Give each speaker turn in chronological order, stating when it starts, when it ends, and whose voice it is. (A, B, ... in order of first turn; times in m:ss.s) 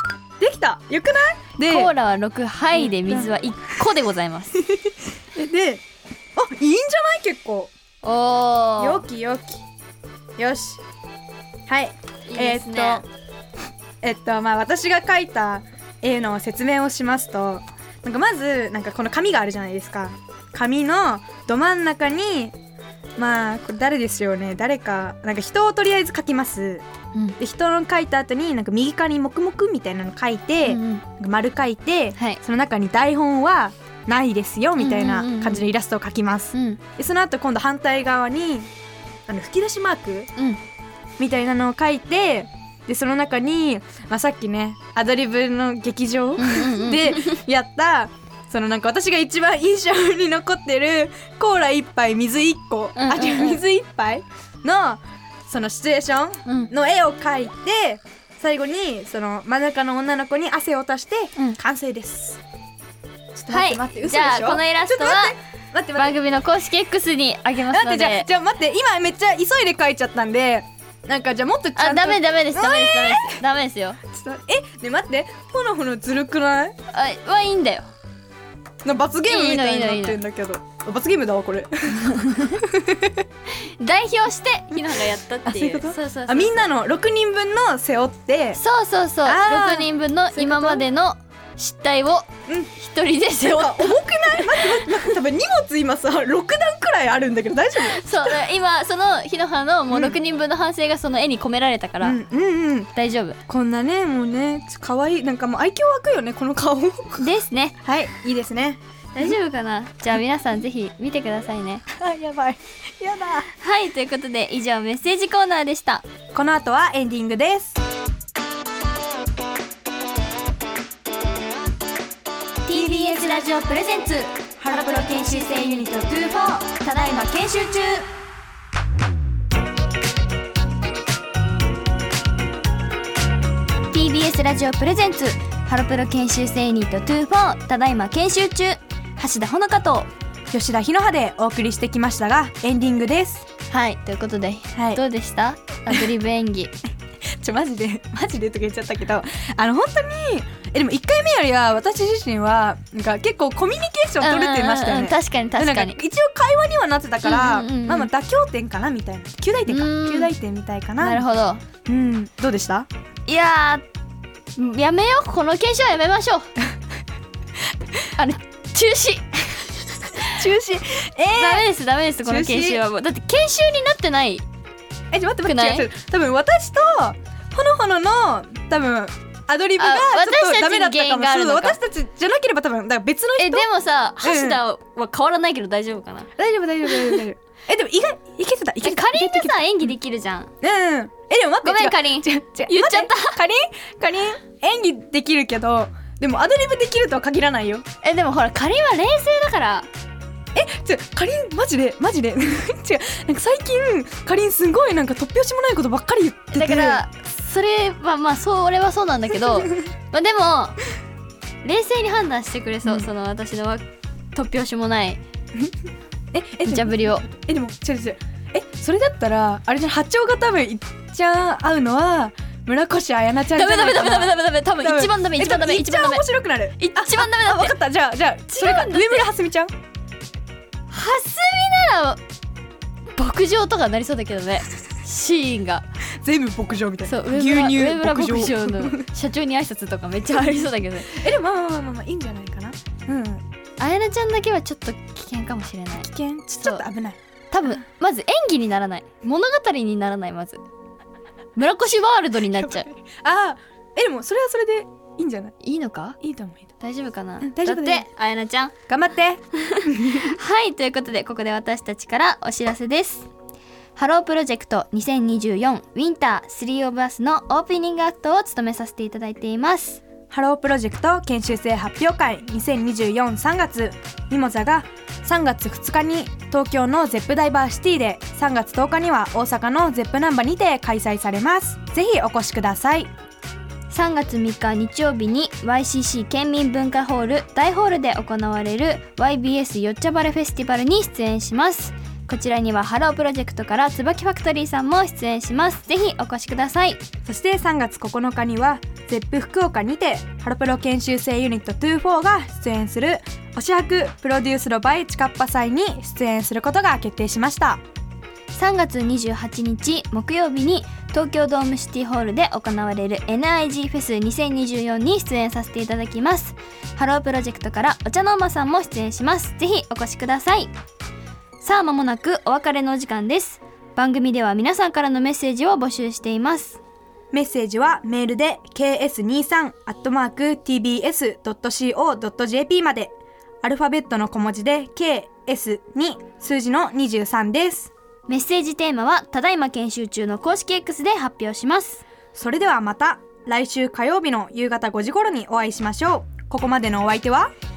0:00.4-0:01.9 A
0:01.7-0:04.6 B
0:02.8-0:03.4 A
0:04.6-0:05.8 A
0:06.4-0:07.7 A
0:08.0-0:09.0 B
0:08.8-0:09.6 A
0:10.4-0:10.8 A
0:11.7-0:13.0 A
0:12.3-0:13.0 B
0:14.0-0:22.6 A
0:23.2-0:26.9 A
0:27.4-0:38.7 A
0:30.7-0:31.0 B
0:34.8-0:35.7 B
0:36.5-0:36.8 B
0:39.3-0:40.3 A
0:41.2-1:02.4 A
0:46.4-0:47.4 B
0:53.0-0:53.6 B
0:56.4-0:56.7 B
1:03.4-1:06.2 A
1:03.5-1:05.4 B
1:06.0-1:08.3 B
1:07.7-1:13.4 A
1:11.8-1:14.0 B
1:14.0-1:16.8 A
1:16.9-1:17.9 B
1:18.8-1:23.2 A
1:19.3-1:20.2 B
1:23.8-1:26.7 B
1:25.4-1:28.6 A
1:28.5-1:35.0 B
1:29.2-1:30.9 A
1:33.4-1:38.5 A
1:37.8-1:42.2 B
1:39.9-1:40.2 A
1:42.0-1:42.9 A
1:43.0-1:43.4 B
1:43.5-1:47.3 A
1:47.2-1:47.8 B
1:47.8-1:49.4 A
1:49.2-1:51.8 B
1:51.9-1:53.5 A
1:53.5-1:56.0 B
1:56.3-1:57.8 A
2:02.7-2:04.1 B
2:02.7-2:08.1 A
2:04.7-2:06.1 B
2:06.9-2:07.2 B
2:13.9-2:20.1 B
2:20.5-2:23.5 A
2:23.7-2:26.7 B
2:24.8-2:25.0 A
2:27.3-2:41.2 A
2:34.2-2:36.0 B
2:37.2-2:38.1 B
2:39.7-2:40.3 B
2:41.0-2:41.6 B
2:41.8-2:42.9 A
2:43.3-2:43.8 B
2:44.6-2:46.5 B
2:48.2-2:50.4 B
2:50.2-2:51.7 A
2:51.4-2:54.4 B
2:52.3-2:52.8 A
2:55.1-3:03.7 A
2:55.4-2:55.9 B
2:59.8-3:01.8 B
3:03.4-3:06.3 B
3:04.2-3:04.6 A
3:06.4-3:09.9 A
3:06.9-3:07.2 B
3:08.8-3:10.5 B
3:10.6-3:17.8 A
3:11.6-3:13.4 B
3:18.0-3:19.9 B
3:20.6-3:27.0 A
3:26.5-3:30.8 B
3:31.6-3:35.2 B
3:36.3-3:49.7 A
3:36.6-3:37.3 B
3:43.5-3:46.2 B
3:46.8-3:47.8 B
3:48.5-3:49.3 B
3:50.9-3:52.2 B
3:53.2-3:55.8 B
3:56.2-3:59.0 A
3:57.1-4:01.2 B
4:00.4-4:03.4 A
4:03.8-4:06.1 B
4:06.0-4:07.8 A
4:07.5-4:10.6 B
4:11.6-4:12.9 B
4:12.5-4:15.6 A
4:15.6-4:16.2 B
4:16.2-4:16.7 A
4:16.8-4:18.7 B
4:17.4-4:18.1 A
4:18.9-4:20.3 A
4:19.6-4:23.3 B
4:24.0-4:30.0 B
4:30.3-4:43.1 A
4:43.9-4:57.0 B
4:57.2-5:07.8 A
5:08.5-5:20.7 B
5:21.6-5:26.8 B
5:27.3-5:37.9 A
5:38.3-5:42.0 B
5:42.3-5:47.5 A